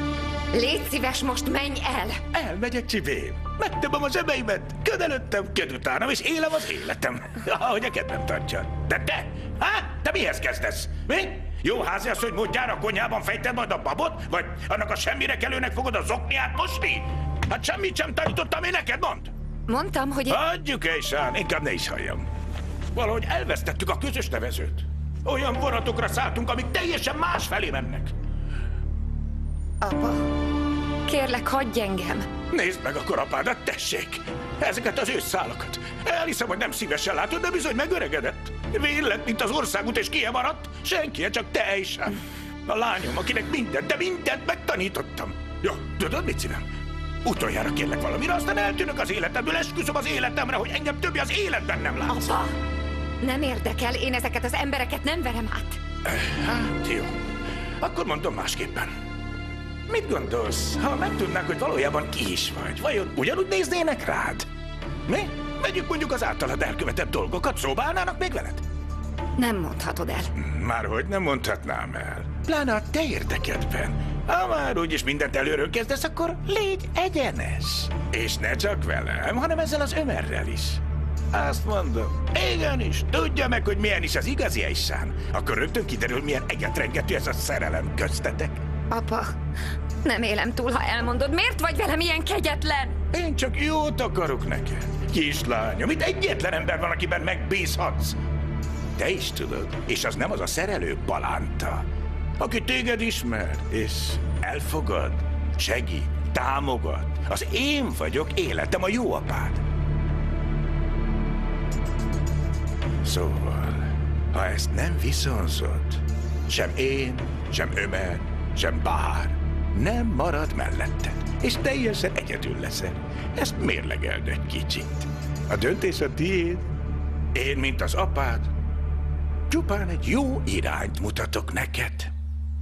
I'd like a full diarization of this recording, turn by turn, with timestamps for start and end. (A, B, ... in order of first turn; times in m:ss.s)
0:00.5-0:02.2 A
0:02.3-0:19.3 B
0:19.7-0:20.4 A
0:20.3-0:22.3 B
0:22.9-0:28.1 B
0:29.8-0:30.3 A
0:31.1-0:32.3 A
0:32.5-0:46.6 B
0:47.2-0:52.2 B
0:52.1-0:52.5 A
0:53.2-0:55.8 A
0:56.1-0:57.2 B
0:57.8-0:58.9 B
0:59.9-1:04.5 B
1:05.1-1:08.6 B
1:09.4-1:10.3 A
1:10.4-1:20.8 B
1:21.3-1:28.6 B
1:28.9-1:29.4 A
1:30.0-1:33.0 A
1:33.1-1:38.2 B
1:39.0-1:41.8 B
1:42.4-1:49.6 B
1:53.0-2:06.6 B
2:07.3-2:08.5 B
2:09.5-2:12.1 B